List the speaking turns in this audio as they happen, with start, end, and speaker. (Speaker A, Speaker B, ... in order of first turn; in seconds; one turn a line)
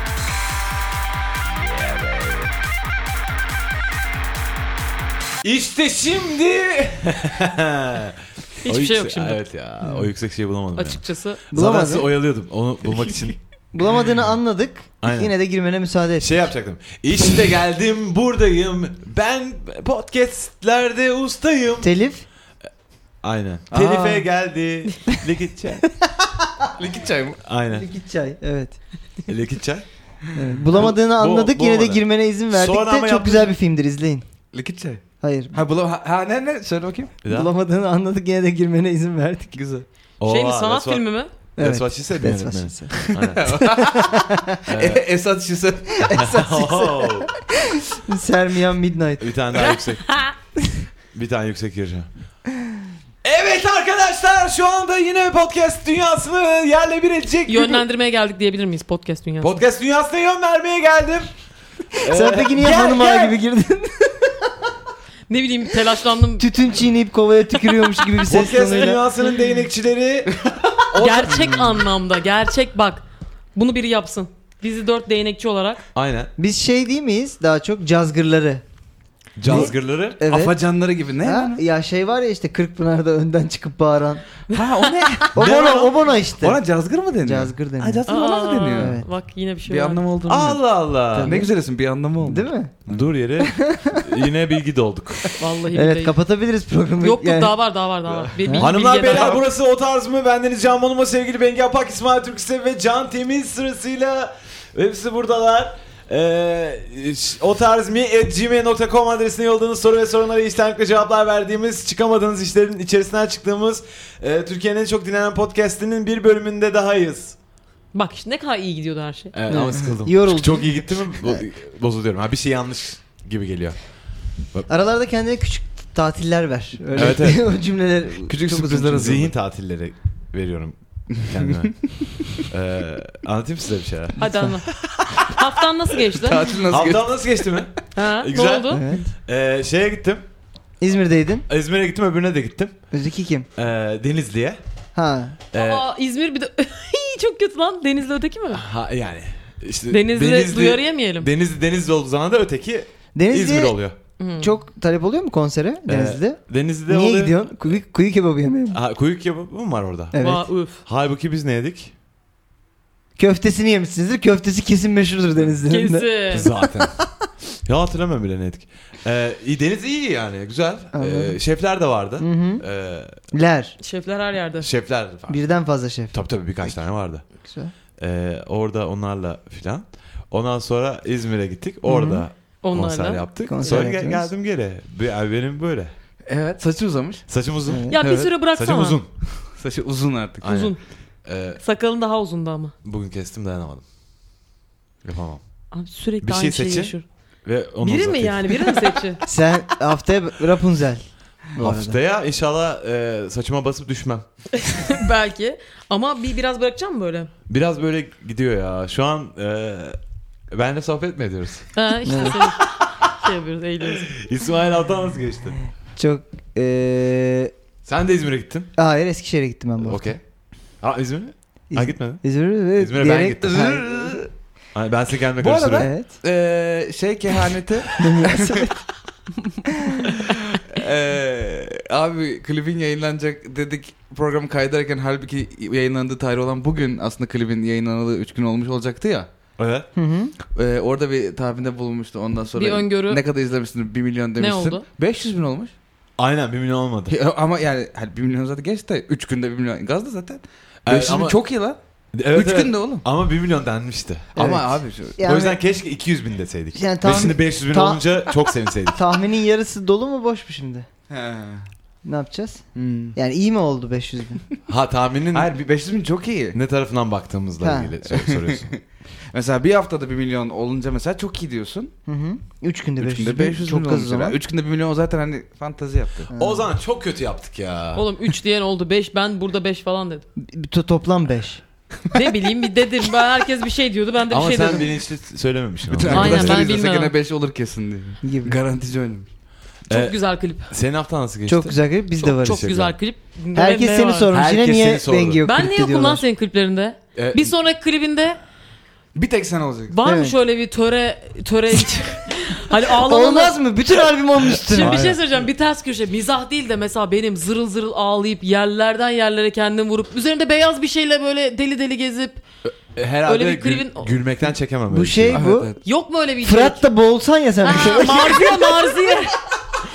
Speaker A: 1.6-2.4
Speaker B: 1.8-2.2
Speaker A: 5.4-13.4
Speaker C: 8.6-9.4
Speaker D: 9.8-10.1
Speaker C: 10.7-11.4
Speaker D: 11.5-12.1
Speaker D: 13.7-16.3
Speaker A: 15.0-15.3
Speaker A: 16.2-21.9
Speaker D: 21.8-22.2
Speaker A: 23.2-25.9
Speaker B: 23.7-24.2
Speaker D: 26.2-26.7
Speaker B: 26.8-27.4
Speaker A: 27.4-27.9
Speaker D: 27.7-28.8
Speaker A: 29.3-29.9
Speaker D: 30.3-34.2
Speaker A: 30.7-33.5
Speaker B: 34.5-37.1
Speaker D: 35.2-35.5
Speaker A: 37.2-37.5
Speaker D: 37.3-39.6
Speaker B: 39.5-39.8
Speaker A: 40.2-43.5
Speaker C: 40.2-41.3
Speaker D: 41.6-44.6
Speaker B: 43.1-46.1
Speaker A: 44.7-45.0
Speaker D: 46.0-49.3
Speaker A: 46.1-47.3
Speaker A: 49.2-50.2
Speaker A: 51.1-52.1
Speaker A: 53.2-57.8
Speaker C: 57.5-59.6
Speaker A: 59.4-61.3
Speaker A: 61.9-63.3
Speaker D: 62.1-64.6
Speaker C: 65.3-66.5
Speaker D: 66.4-69.0
Speaker C: 67.9-68.9
Speaker A: 68.3-71.8
Speaker C: 70.9-73.0
Speaker C: 73.5-75.8
Speaker A: 75.9-76.3
Speaker D: 76.4-78.6
Speaker A: 79.4-80.2
Speaker D: 79.5-80.5
Speaker B: 79.5-79.7
Speaker B: 80.2-81.6
Speaker D: 81.2-84.2
Speaker C: 84.5-85.3
Speaker B: 84.5-85.8
Speaker D: 85.3-86.6
Speaker A: 85.3-85.9
Speaker B: 86.4-89.0
Speaker D: 87.2-88.0
Speaker C: 88.1-90.0
Speaker D: 88.8-89.0
Speaker B: 89.7-90.6
Speaker A: 90.2-91.4
Speaker B: 91.1-93.0
Speaker D: 91.2-91.5
Speaker D: 92.2-92.7
Speaker A: 92.9-95.3
Speaker D: 93.4-94.0
Speaker D: 95.2-97.5
Speaker C: 95.4-96.1
Speaker C: 97.0-99.4
Speaker B: 98.0-98.3
Speaker D: 98.4-98.7
Speaker A: 98.6-117.3
Speaker B: 99.0-99.4
Speaker C: 117.9-119.3
Speaker A: 119.3-123.8
Speaker D: 119.5-121.4
Speaker D: 124.7-129.1
Speaker B: 126.9-127.3
Speaker A: 127.0-127.4
Speaker B: 128.3-129.3
Speaker A: 128.9-135.3
Speaker C: 134.2-134.7
Speaker D: 134.2-134.5
Speaker C: 135.2-136.5
Speaker B: 136.2-137.5
Speaker A: 136.7-140.2
Speaker C: 137.9-138.8
Speaker D: 138.7-139.1
Speaker D: 140.8-141.4
Speaker A: 141.5-142.7
Speaker D: 142.9-143.5
Speaker A: 143.6-144.6
Speaker D: 144.9-145.4
Speaker A: 145.5-145.8
Speaker C: 145.5-148.6
Speaker A: 148.5-153.9
Speaker C: 149.9-151.3
Speaker D: 153.1-153.8
Speaker C: 154.2-154.5
Speaker D: 154.4-158.8
Speaker A: 155.9-157.5
Speaker A: 158.7-160.2
Speaker D: 160.1-160.5
Speaker C: 160.2-160.8
Speaker A: 160.8-161.9
Speaker D: 163.2-166.8
Speaker C: 165.7-166.5
Speaker A: 166.3-167.0
Speaker A: 167.7-173.1
Speaker D: 170.9-171.4
Speaker D: 172.2-172.6
Speaker D: 173.3-173.8
Speaker C: 173.8-174.7
Speaker A: 174.6-175.5
Speaker D: 175.3-176.2
Speaker A: 176.1-177.2
Speaker D: 177.4-177.7
Speaker A: 178.0-185.9
Speaker D: 181.8-182.2
Speaker C: 182.6-183.3
Speaker D: 183.5-184.3
Speaker B: 186.2-187.2
Speaker A: 187.3-189.1
Speaker D: 187.7-187.9
Speaker B: 187.9-188.3
Speaker C: 187.9-189.0
Speaker B: 189.4-190.4
Speaker A: 190.4-191.6
Speaker C: 190.4-190.8
Speaker C: 191.6-192.7
Speaker A: 192.8-193.8
Speaker A: 195.0-195.4
Speaker C: 195.7-197.0
Speaker A: 196.2-196.9
Speaker A: 197.4-198.7
Speaker C: 197.8-199.2
Speaker D: 199.2-202.0
Speaker A: 201.6-204.2
Speaker C: 204.6-207.3
Speaker A: 207.5-210.0
Speaker A: 210.5-211.7
Speaker C: 211.7-214.1
Speaker D: 212.1-212.4
Speaker A: 214.0-215.6
Speaker D: 215.9-217.5
Speaker A: 217.8-218.7
Speaker D: 218.8-220.1
Speaker A: 219.8-220.2
Speaker A: 220.8-222.2
Speaker D: 221.7-224.2
Speaker A: 222.8-223.7
Speaker B: 223.4-224.3
Speaker A: 224.7-225.9
Speaker B: 225.4-228.7
Speaker D: 225.8-226.1
Speaker D: 228.0-228.7
Speaker B: 230.2-239.3
Speaker A: 239.6-239.9
Speaker D: 239.9-240.3
Speaker B: 240.5-245.7
Speaker C: 242.6-243.2
Speaker C: 244.4-244.8
Speaker A: 246.2-247.2
Speaker B: 247.1-251.8
Speaker A: 250.8-251.4
Speaker A: 252.1-254.3
Speaker B: 252.3-253.0
Speaker B: 254.3-255.2
Speaker D: 254.4-255.6
Speaker A: 255.2-259.0
Speaker D: 256.7-258.3
Speaker D: 258.9-260.9
Speaker B: 261.1-261.7
Speaker D: 262.0-262.6
Speaker B: 262.7-263.1
Speaker D: 263.1-264.4
Speaker A: 264.7-265.5
Speaker B: 265.3-266.6
Speaker A: 266.5-268.7
Speaker D: 267.6-267.9
Speaker B: 268.1-268.8
Speaker B: 269.3-271.9
Speaker D: 272.1-274.4
Speaker B: 273.0-276.3
Speaker D: 276.3-276.6
Speaker A: 276.4-278.1
Speaker C: 277.9-280.2
Speaker D: 280.4-281.6
Speaker C: 282.1-284.9
Speaker A: 284.3-286.6
Speaker B: 285.9-289.3
Speaker C: 286.1-287.1
Speaker D: 288.2-288.6
Speaker C: 289.9-290.7
Speaker A: 289.9-292.9
Speaker D: 291.5-292.6
Speaker C: 292.3-294.3
Speaker D: 293.5-296.2
Speaker A: 294.3-295.4
Speaker C: 295.4-298.4
Speaker A: 297.1-297.5
Speaker B: 299.1-299.9
Speaker C: 299.9-303.6
Speaker D: 300.0-300.4
Speaker D: 302.9-305.1
Speaker A: 304.6-305.2
Speaker C: 304.7-312.4
Speaker A: 312.6-315.5
Speaker C: 313.2-314.1
Speaker D: 314.9-315.8
Speaker B: 315.3-315.8
Speaker C: 315.8-316.8
Speaker D: 316.4-318.8
Speaker C: 317.6-319.4